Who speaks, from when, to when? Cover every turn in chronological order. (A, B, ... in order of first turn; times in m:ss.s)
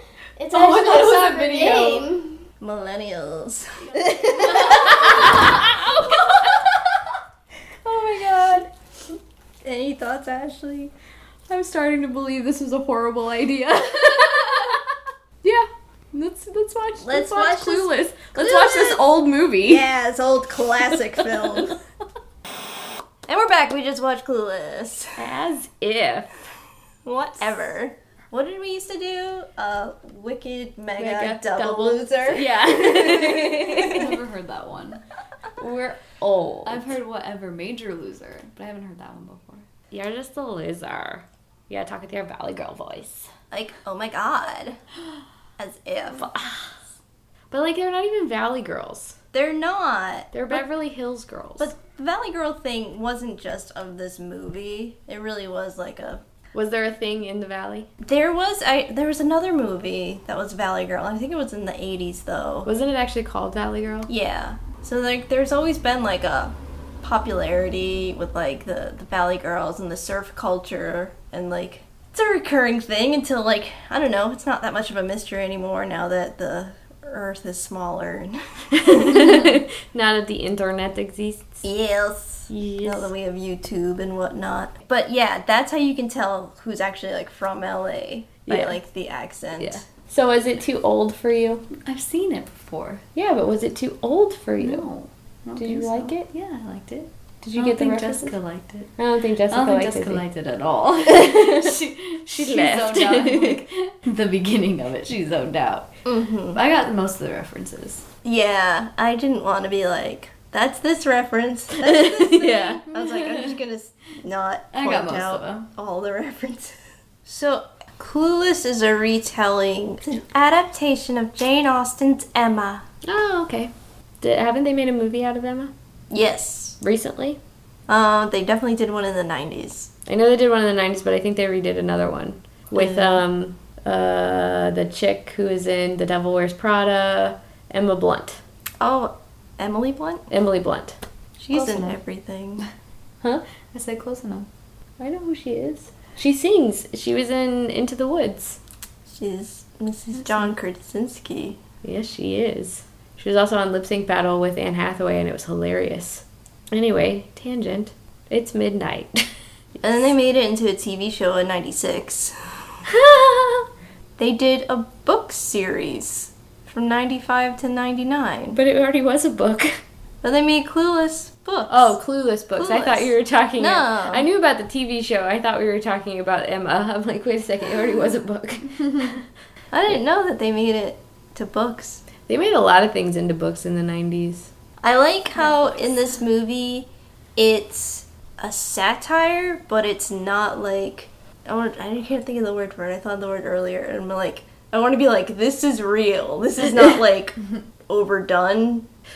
0:00.4-0:02.4 A
0:00.5-0:02.1 B
0:02.6-0:05.1 C
0:03.9-0:04.7 A
0:04.5-0:05.6 B
0:05.4-0:06.4 D
0:07.8-0:08.7 D
0:09.6-0:10.9 C
0:11.5-0:14.7 D
0:15.4-0:19.9 D
0:17.0-0:19.1 C
0:19.6-0:21.8 C
0:21.2-0:21.6 D
0:23.3-0:25.2 C
0:25.2-0:26.4 D
0:27.0-0:34.1 C
0:30.9-0:34.0 D
0:33.8-0:35.0 B
0:35.6-0:37.0 D
0:36.6-0:39.6 B
0:39.9-0:43.3 D
0:43.5-0:44.8 C
0:45.6-0:46.3 C
0:46.1-0:46.7 D
0:47.5-0:49.2 D
0:49.3-0:50.6 C
0:50.3-0:51.7 D
0:51.6-0:56.2 C
0:56.5-0:57.9 D
0:58.0-1:02.7 C
1:02.6-1:04.1 D
1:04.1-1:19.4 C
1:18.8-1:21.6 D
1:21.6-1:29.8 C
1:22.5-1:23.1 D
1:28.5-1:28.8 D
1:29.6-1:31.7 D
1:31.8-1:33.0 B
1:33.1-1:34.9 D
1:34.6-1:38.9 B
1:35.6-1:36.3 D
1:37.4-1:38.3 D
1:39.0-1:40.2 D
1:39.5-1:45.9 B
1:42.2-1:43.6 D
1:46.0-1:46.6 C
1:46.5-1:48.1 B
1:48.2-2:02.8 C
1:51.8-1:52.8 D
1:52.9-1:53.5 B
1:54.7-1:55.7 B
2:03.0-2:05.7 D
2:06.1-2:06.8 C
2:06.8-2:07.4 D
2:07.9-2:09.9 C
2:10.0-2:18.4 D
2:12.7-2:13.2 C
2:18.8-2:20.2 C
2:20.3-2:21.0 D
2:21.4-2:22.6 C
2:21.5-2:22.0 B
2:23.7-2:24.5 B
2:25.0-2:28.6 D
2:29.1-2:31.6 C
2:31.8-2:39.3 D
2:39.8-2:42.4 C
2:42.9-2:43.6 D
2:44.2-2:48.6 C
2:48.5-2:49.8 D
2:50.2-2:51.9 C
2:51.7-2:59.2 D
2:52.6-2:54.2 C
2:59.7-3:02.0 C
3:02.2-3:04.5 D
3:04.8-3:18.8 C